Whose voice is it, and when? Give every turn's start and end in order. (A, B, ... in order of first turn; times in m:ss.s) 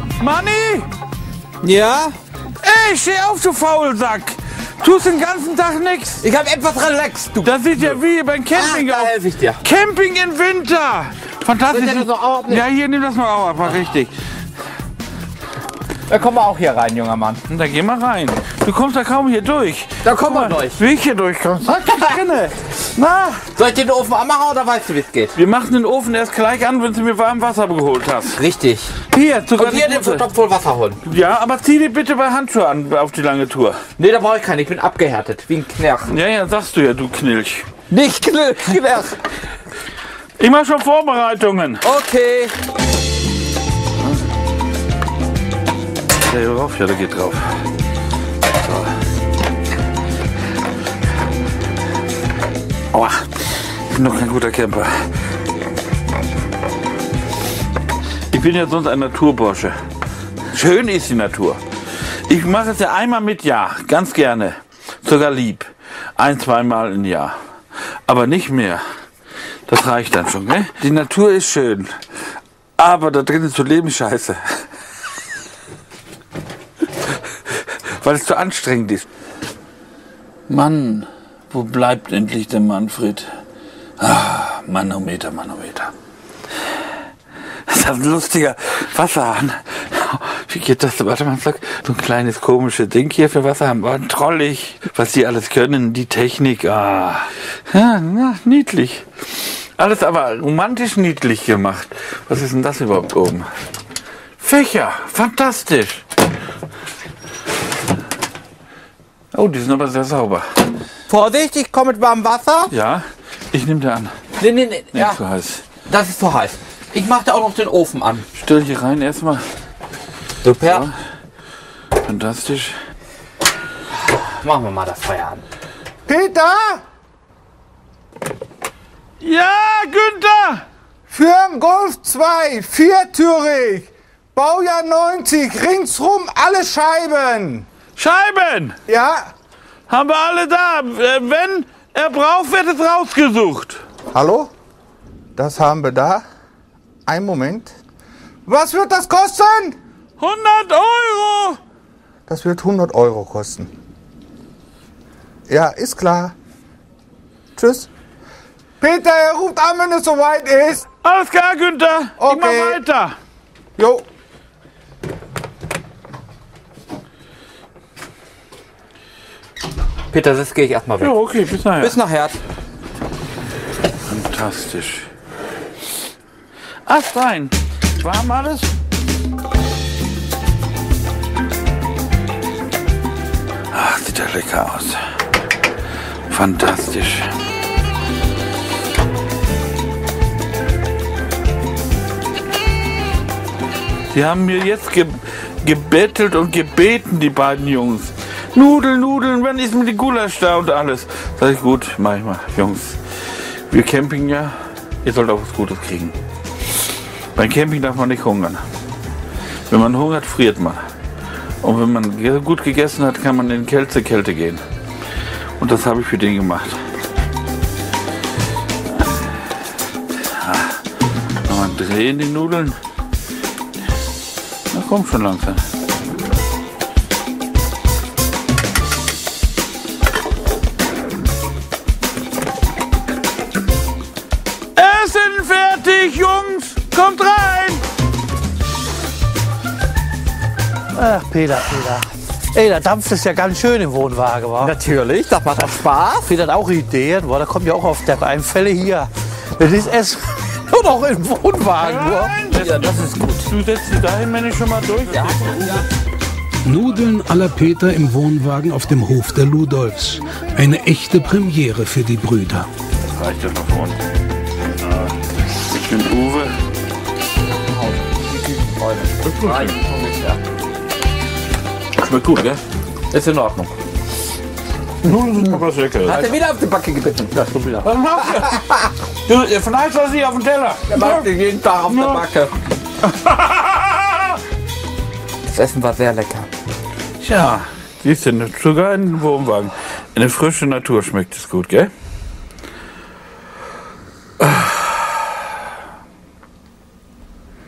0:00.2-0:00.9 A
0:01.6-0:02.2 B
0:02.6-0:06.2 A
0:06.2-0:08.0 B
0:07.4-0:14.1 A
0:08.5-0:09.6 B
0:11.7-0:12.6 B
0:16.1-0:17.4 B
0:17.5-0:23.4 A
0:20.0-0:20.8 B
0:23.6-0:25.4 B
0:25.4-0:28.4 A
0:28.4-0:29.0 B
0:29.1-0:30.3 A
0:29.6-0:31.0 B
0:31.0-0:33.8 A
0:34.0-0:36.1 B
0:36.1-0:37.7 A
0:37.9-0:39.2 B
0:40.4-0:41.8 A
0:41.8-0:42.5 B
0:46.2-0:47.5 A
0:48.6-0:48.9 A
0:52.9-0:55.1 A
0:58.3-0:59.8 A
1:00.5-1:01.6 A
1:02.3-1:07.4 A
1:08.1-1:08.8 A
1:09.7-1:11.9 A
1:12.8-1:14.6 A
1:17.5-1:19.1 A
1:20.5-1:23.2 A
1:24.0-1:25.9 A
1:27.7-1:43.5 A
1:44.4-1:46.0 A
1:49.3-1:50.4 A
1:51.1-1:52.7 B
1:52.7-1:54.2 A
1:54.4-1:55.2 B
1:54.9-1:55.6 A
1:55.8-1:58.3 B
1:58.4-1:59.4 A
2:00.4-2:00.9 B
2:00.7-2:00.9 A
2:02.0-2:02.8 A
2:04.2-2:05.4 B
2:06.1-2:06.8 C
2:09.2-2:10.6 A
2:11.1-2:17.7 C
2:18.0-2:18.8 A
2:18.9-2:19.3 C
2:19.9-2:23.8 A
2:24.1-2:24.5 C
2:25.4-2:26.2 C
2:27.1-2:27.7 C
2:28.5-2:29.8 C
2:30.2-2:31.6 A
2:32.3-2:33.7 C
2:35.5-2:36.3 C
2:37.6-2:37.9 C
2:38.8-2:40.9 C
2:41.0-2:43.2 A
2:42.2-2:42.8 C
2:43.8-2:44.0 C
2:50.1-2:51.2 B
2:51.0-2:52.0 A
2:51.8-2:52.4 B
2:54.1-2:55.1 A
2:56.9-2:58.7 A
3:03.7-3:05.0 A
3:06.3-3:07.3 A
3:14.1-3:23.0 A
3:23.7-3:26.2 A
3:27.4-3:28.6 A
3:29.7-3:30.8 A
3:31.6-3:34.6 A
3:35.6-3:36.8 A
3:40.3-3:40.8 A
3:41.5-3:42.8 A
3:44.7-3:45.6 A
3:54.8-3:57.8 A
4:01.0-4:04.7 D
4:04.6-4:06.3 B
4:06.2-4:13.2 D
4:11.8-4:15.8 A
4:12.5-4:13.4 B
4:15.1-4:15.8 B
4:16.6-4:22.7 E
4:23.0-4:24.0 A
4:24.8-4:25.1 A
4:25.7-4:26.6 A
4:27.7-4:30.4 B
4:29.2-4:29.8 A
4:32.0-4:32.6 A
4:33.1-4:33.8 B
4:35.0-4:36.3 A
4:36.0-4:37.8 B
4:37.8-4:38.7 A
4:39.3-4:41.3 A
4:40.9-4:42.5 B
4:41.9-4:42.2 A
4:43.2-4:44.3 A
4:45.5-4:46.5 B
4:47.2-4:51.9 A
4:54.4-4:54.7 A